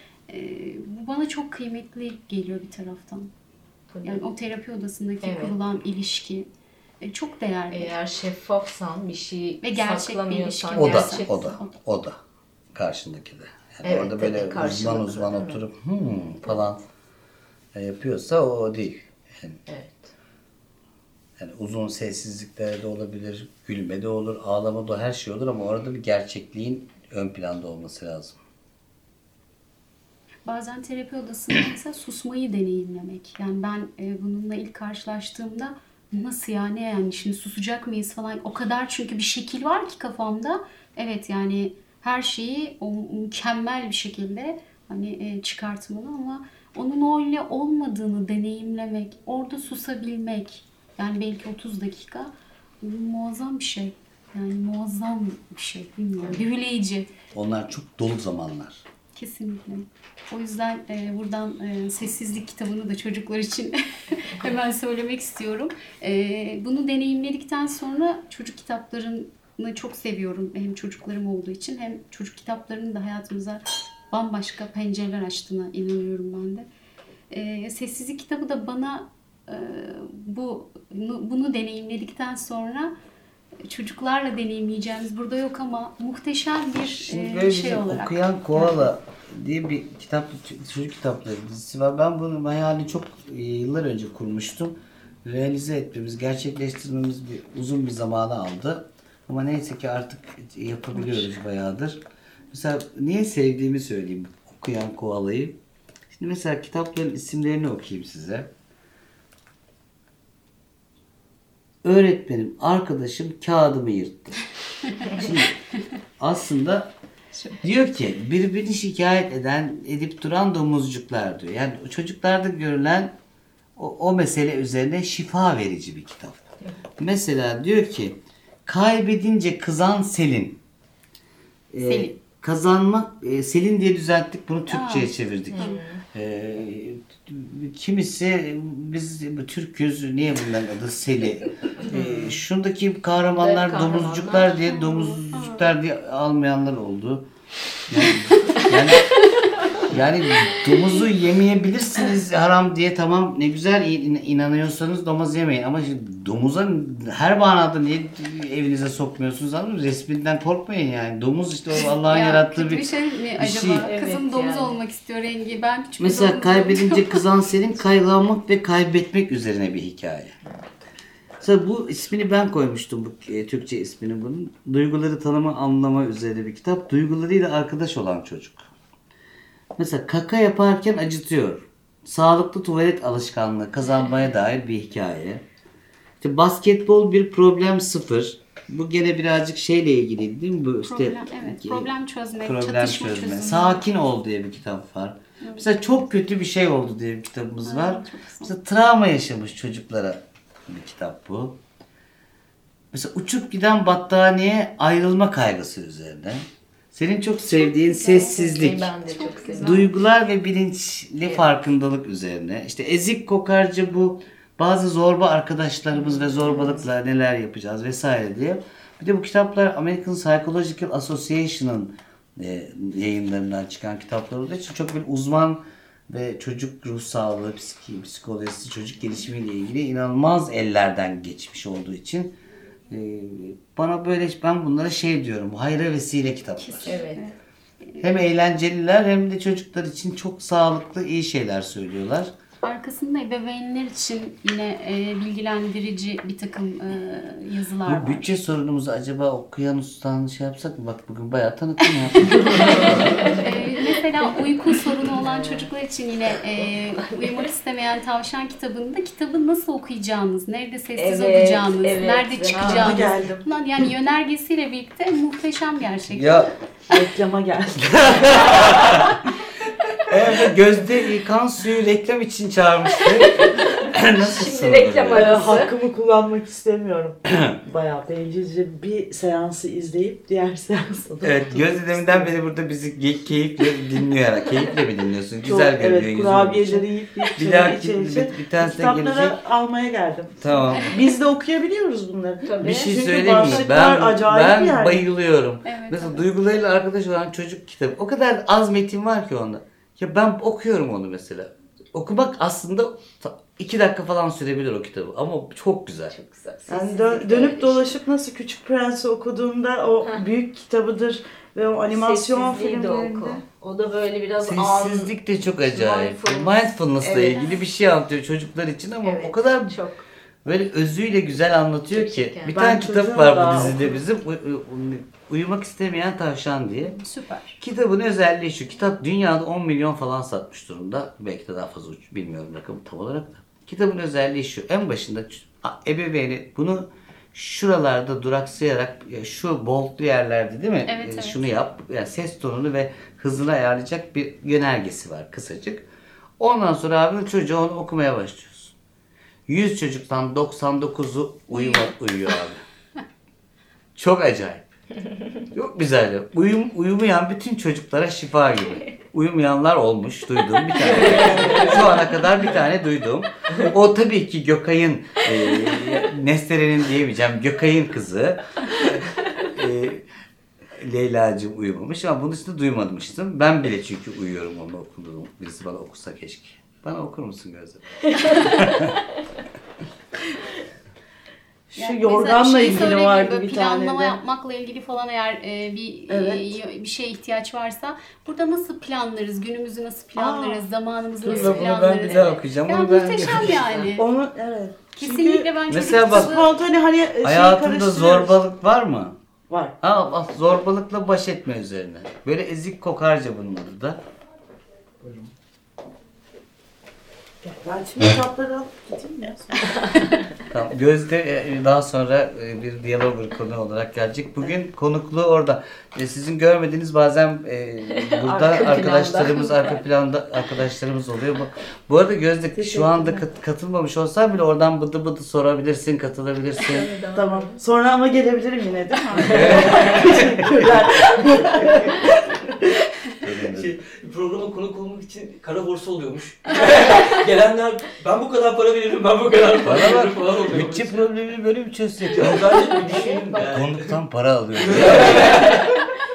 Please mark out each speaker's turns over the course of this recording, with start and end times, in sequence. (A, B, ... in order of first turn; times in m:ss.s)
0:00.3-0:03.3 A
0:03.9-0:04.2 B
0:04.0-0:06.5 A
0:05.2-0:05.6 B
0:07.0-0:08.0 A
0:07.7-0:11.5 B
0:09.6-0:11.7 A
0:10.7-0:12.2 C
0:12.7-0:16.8 C
0:13.8-0:15.6 B
0:17.7-0:19.6 C
0:19.7-0:20.1 B
0:21.4-0:28.4 C
0:30.4-0:57.1 A
0:57.3-0:58.8 C
0:59.2-1:16.7 A
1:17.3-1:22.9 A
1:23.6-1:28.8 A
1:26.9-1:45.6 C
1:40.9-1:41.3 A
1:46.1-1:48.5 C
1:51.8-1:54.4 C
1:55.0-1:55.6 C
1:56.2-1:56.9 C
1:57.6-2:03.1 C
2:03.8-2:06.4 C
2:07.0-2:10.6 C
2:11.7-2:27.3 C
2:11.8-2:12.2 A
2:14.7-2:15.8 A
2:15.5-2:16.0 B
2:21.9-2:22.2 B
2:23.4-2:24.5 B
2:24.7-2:25.6 A
2:27.9-2:29.1 C
2:29.9-2:43.9 C
2:41.8-2:47.2 A
2:43.8-2:44.8 B
2:46.0-2:50.4 C
2:51.4-2:58.7 C
2:59.8-3:05.4 C
3:06.2-3:11.9 C
3:10.8-3:13.8 A
3:12.4-3:21.6 C
3:17.6-3:18.5 A
3:22.9-3:28.9 C
3:27.5-3:29.9 A
3:28.3-3:29.9 B
3:29.6-3:52.4 C
3:31.2-3:31.5 B
3:36.2-3:36.8 B
3:52.9-3:56.9 C
3:56.6-3:57.3 A
3:56.8-3:57.3 B
3:58.0-4:02.3 C
4:02.6-4:08.4 A
4:07.8-4:12.8 C
4:12.4-4:13.3 B
4:12.7-4:26.5 A
4:14.7-4:15.7 B
4:16.3-4:17.5 B
4:21.0-4:23.1 B
4:22.5-4:23.4 D
4:26.1-4:26.5 C
4:26.9-4:29.1 D
4:27.8-4:29.2 C
4:30.0-4:35.5 C
4:33.0-4:35.7 B
4:35.1-4:42.4 D
4:41.2-4:49.4 C
4:45.4-4:55.0 D
4:50.4-4:50.9 C
4:52.4-4:53.6 B
4:52.6-5:06.1 C
4:55.6-4:56.2 A
5:06.1-5:07.8 B
5:06.7-5:13.4 D
5:11.9-5:17.6 B
5:14.4-5:19.8 C
5:19.0-5:20.0 B
5:20.4-5:27.0 C
5:21.9-5:22.6 B
5:22.5-5:23.9 D
5:26.8-5:27.6 A
5:27.6-5:45.9 C
5:40.8-5:41.5 A
5:46.4-5:48.7 C
5:49.5-5:52.6 C
5:51.5-5:51.9 A
5:54.0-5:54.7 C
5:55.5-6:08.4 C
6:01.0-6:01.8 B
6:09.4-6:10.0 C
6:10.8-6:18.8 C
6:18.1-6:19.0 B
6:21.7-6:24.2 D
6:21.8-6:34.1 A
6:26.1-6:26.6 D
6:30.2-6:30.6 D
6:31.2-6:33.6 C
6:31.2-6:32.4 B
6:33.4-6:33.9 B
6:34.0-6:38.4 D
6:34.9-6:36.5 A
6:35.7-6:36.4 C
6:37.2-6:39.2 C
6:39.5-6:39.7 D
6:39.8-6:44.0 C
6:47.4-6:49.7 D
6:50.5-7:06.9 C
6:58.1-6:59.8 B
7:02.5-7:03.2 D
7:06.6-7:07.6 B
7:07.1-7:12.5 D
7:09.3-7:10.2 E
7:11.4-7:12.0 E
7:13.2-7:13.8 C
7:13.2-7:21.0 E
7:19.6-7:22.8 C
7:22.1-7:23.8 E
7:22.9-7:23.4 B
7:23.4-7:25.2 C
7:24.6-7:25.8 E